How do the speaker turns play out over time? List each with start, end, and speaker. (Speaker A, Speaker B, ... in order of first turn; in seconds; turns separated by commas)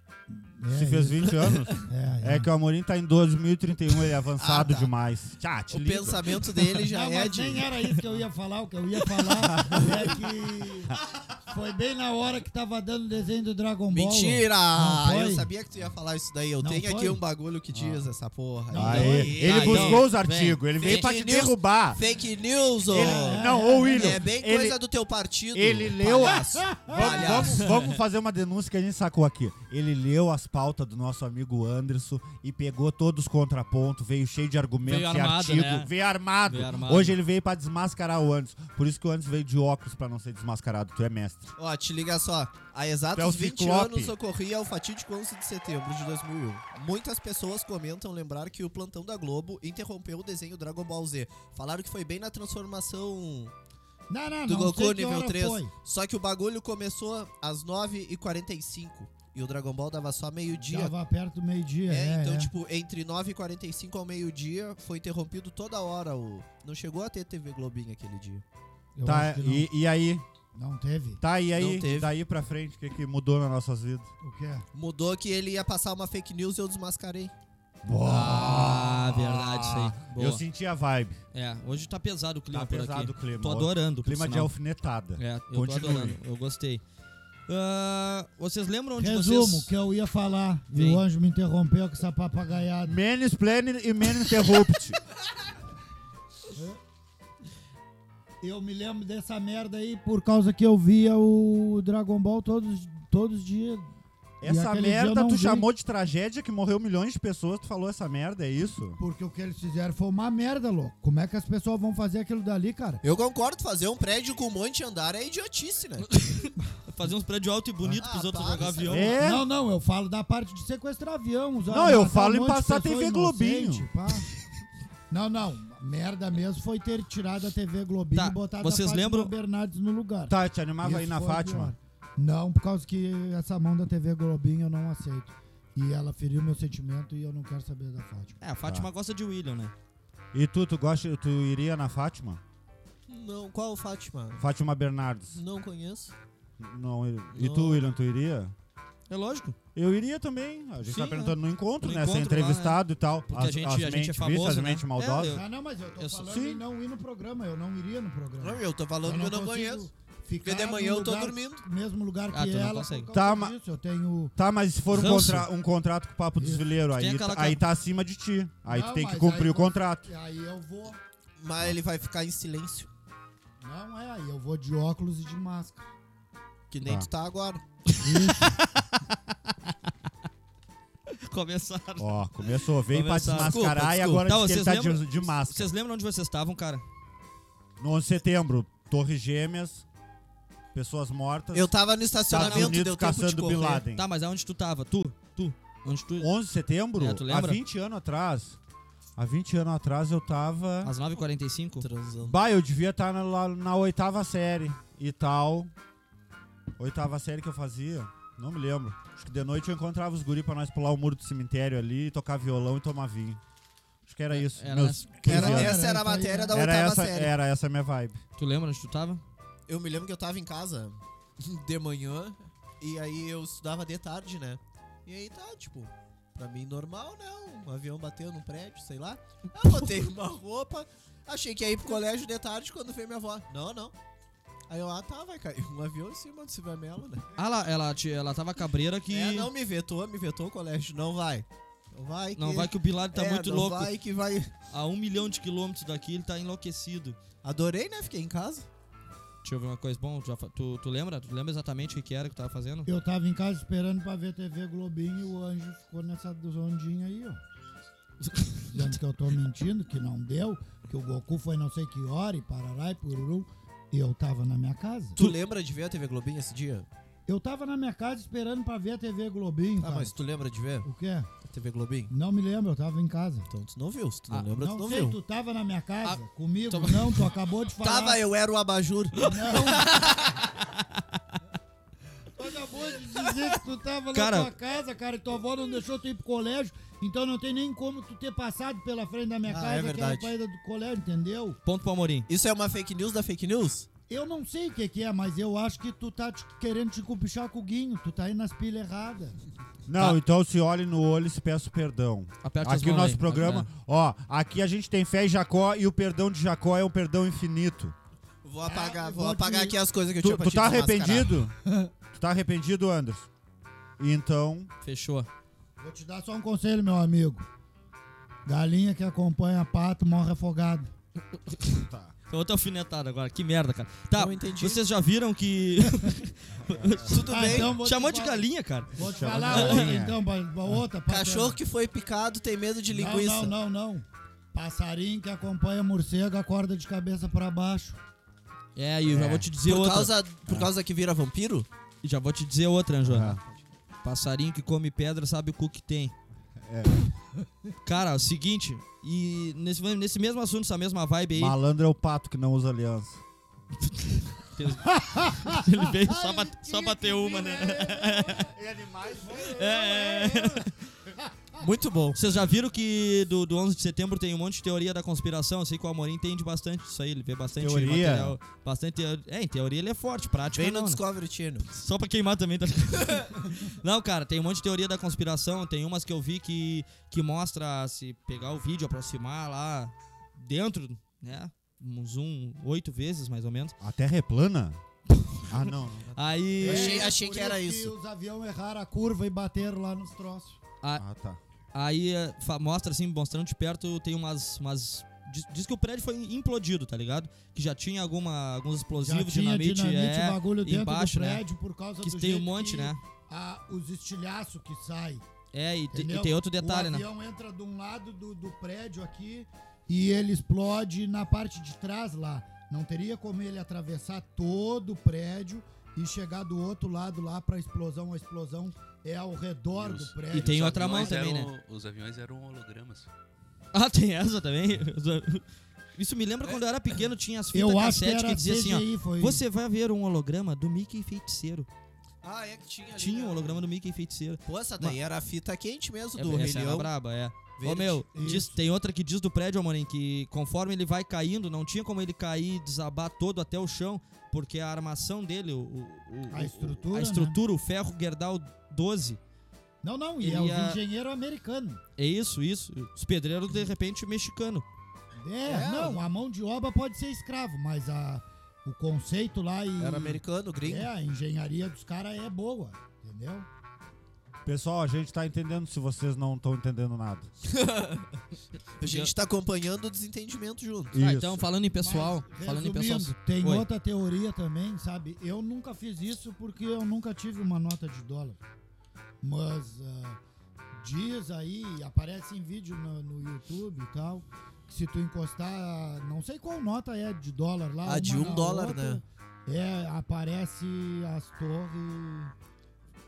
Speaker A: 0.3-2.5, Speaker B: 0.7-6.5, Speaker C: 4.4-4.9, Speaker C: 5.7-7.7, Speaker A: 6.8-15.5, Speaker B: 9.6-9.9, Speaker C: 13.9-20.1, Speaker A: 16.6-17.2, Speaker B: 17.7-18.1, Speaker A: 18.7-19.4, Speaker B: 18.7-22.0, Speaker D: 19.2-21.0, Speaker C: 20.8-27.7, Speaker B: 22.9-24.8, Speaker A: 22.9-24.2, Speaker B: 25.5-41.5, Speaker A: 26.5-27.4, Speaker D: 27.6-28.0, Speaker D: 34.9-35.9, Speaker D: 36.5-37.2, Speaker C: 41.6-53.5, Speaker B: 43.1-44.1, Speaker A: 54.1-55.7, Speaker C: 54.5-60.9, Speaker A: 60.6-62.5, Speaker C: 61.9-68.4, Speaker A: 69.0-69.7, Speaker B: 69.0-70.2, Speaker A: 70.5-71.2, Speaker B: 71.2-74.1, Speaker C: 71.5-72.1, Speaker A: 74.2-74.7, Speaker C: 74.7-77.3, Speaker B: 77.9-81.2, Speaker A: 78.0-78.6, Speaker D: 78.0-80.4, Speaker D: 81.3-84.5, Speaker B: 82.5-86.2, Speaker D: 85.2-86.8, Speaker D: 87.5-89.7, Speaker A: 89.0-93.0, Speaker D: 90.7-91.0, Speaker B: 92.8-95.0, Speaker A: 96.5-96.8, Speaker A: 98.4-103.9, Speaker B: 104.4-109.0, Speaker A: 104.4-105.7, Speaker A: 109.0-113.0, Speaker C: 113.0-116.1, Speaker D: 116.1-119.2, Speaker C: 117.9-119.1, Speaker B: 118.9-119.5, Speaker A: 119.2-124.3, Speaker B: 121.7-123.9, Speaker A: 125.1-138.4, Speaker D: 128.1-129.3, Speaker B: 130.3-131.8, Speaker D: 138.4-139.7, Speaker B: 140.3-142.4, Speaker C: 143.1-144.4, Speaker B: 144.4-145.4, Speaker C: 145.3-146.1, Speaker B: 146.6-148.5, Speaker C: 147.3-147.9, Speaker D: 149.1-149.6, Speaker B: 149.8-155.4, Speaker D: 150.8-155.4, Speaker A: 155.2-164.3, Speaker B: 156.2-156.6, Speaker C: 158.4-159.9, Speaker C: 160.4-161.6, Speaker D: 162.3-163.1, Speaker B: 163.1-163.6, Speaker B: 164.4-170.1, Speaker D: 164.9-165.5, Speaker A: 166.4-166.7, Speaker D: 167.0-167.6, Speaker A: 168.7-171.0, Speaker C: 171.4-172.9, Speaker A: 173.6-175.9, Speaker C: 176.7-177.6, Speaker B: 176.8-177.1, Speaker D: 177.9-178.9, Speaker A: 178.0-178.6, Speaker D: 181.2-182.1, Speaker B: 182.0-185.7, Speaker D: 182.9-186.8, Speaker C: 183.3-184.0, Speaker B: 187.8-189.9, Speaker B: 190.7-191.7, Speaker C: 191.5-193.8, Speaker B: 192.2-194.1, Speaker D: 192.4-192.8, Speaker D: 193.9-196.3, Speaker B: 196.2-198.6, Speaker D: 197.0-197.6, Speaker B: 199.2-200.9, Speaker D: 200.8-201.9, Speaker C: 201.8-202.4, Speaker B: 202.2-205.7, Speaker B: 206.8-213.4, Speaker B: 214.1-215.8, Speaker D: 214.3-215.5, Speaker C: 215.2-217.3, Speaker A: 215.3-216.6, Speaker B: 216.5-218.2, Speaker D: 218.4-219.2, Speaker C: 219.7-233.9, Speaker C: 234.7-237.2, Speaker D: 237.4-239.5, Speaker C: 239.1-244.5, Speaker D: 242.4-243.9, Speaker D: 244.7-247.2, Speaker C: 247.4-248.7, Speaker D: 249.4-252.9, Speaker A: 252.9-257.4, Speaker D: 258.3-258.7, Speaker A: 258.7-265.2, Speaker C: 265.2-266.9, Speaker A: 267.3-270.1, Speaker C: 269.8-270.9, Speaker A: 270.9-271.3, Speaker C: 271.4-272.1, Speaker A: 272.1-273.5, Speaker C: 273.5-275.2, Speaker A: 274.6-278.2, Speaker D: 276.0-277.3, Speaker C: 277.8-280.4, Speaker A: 279.2-280.1, Speaker D: 280.8-281.4, Speaker A: 282.4-291.6, Speaker D: 284.1-284.5, Speaker C: 289.5-290.3, Speaker D: 291.6-292.3, Speaker C: 292.3-293.9, Speaker A: 294.1-299.4, Speaker B: 299.9-307.9, Speaker D: 302.4-303.7, Speaker C: 308.4-311.4, Speaker A: 308.6-309.8, Speaker B: 310.2-311.5, Speaker B: 312.1-313.3, Speaker B: 314.0-314.7, Speaker D: 314.8-315.3, Speaker A: 315.8-317.5, Speaker A: 318.5-320.9, Speaker B: 321.8-322.1, Speaker D: 322.3-329.9, Speaker C: 324.1-324.8, Speaker B: 326.7-327.2, Speaker C: 327.1-327.8, Speaker A: 327.3-331.6, Speaker B: 329.0-330.2, Speaker C: 331.1-333.6, Speaker A: 332.9-338.0, Speaker D: 338.8-340.1, Speaker B: 339.1-339.5, Speaker C: 339.5-341.7, Speaker D: 342.0-343.4, Speaker B: 343.0-343.4, Speaker D: 344.0-346.1, Speaker B: 346.6-347.1, Speaker D: 347.9-351.6, Speaker B: 351.3-353.2, Speaker D: 353.9-358.5, Speaker A: 354.9-358.5, Speaker B: 358.4-360.5, Speaker D: 359.5-360.8, Speaker C: 361.6-362.2, Speaker D: 362.1-371.0, Speaker B: 367.6-368.4, Speaker C: 370.5-371.8, Speaker D: 371.7-383.7, Speaker B: 383.8-384.8, Speaker D: 385.2-385.6, Speaker B: 385.5-387.1, Speaker D: 386.1-387.0, Speaker A: 386.6-390.6, Speaker C: 386.6-387.9, Speaker B: 391.0-391.4, Speaker D: 391.7-401.4, Speaker A: 398.9-405.2, Speaker D: 402.0-403.0, Speaker D: 405.5-407.1, Speaker A: 405.9-421.3, Speaker E: 419.8-423.1, Speaker D: 420.3-421.5, Speaker D: 423.7-425.4, Speaker D: 426.0-431.7, Speaker A: 427.5-429.4, Speaker C: 432.2-433.6, Speaker D: 433.0-435.0, Speaker C: 434.5-436.9, Speaker D: 436.2-449.2, Speaker C: 437.6-438.1, Speaker A: 438.1-438.6, Speaker A: 446.3-447.4, Speaker A: 449.8-451.8, Speaker D: 450.2-450.8, Speaker D: 452.0-454.6, Speaker A: 455.2-463.5, Speaker C: 455.5-456.0, Speaker C: 459.8-460.9, Speaker B: 464.4-467.3, Speaker C: 467.5-468.1, Speaker C: 468.8-471.0, Speaker D: 468.8-469.1, Speaker B: 470.9-471.5, Speaker D: 471.0-473.7, Speaker A: 471.8-478.4, Speaker A: 479.2-480.2, Speaker A: 480.8-492.3, Speaker C: 487.8-489.0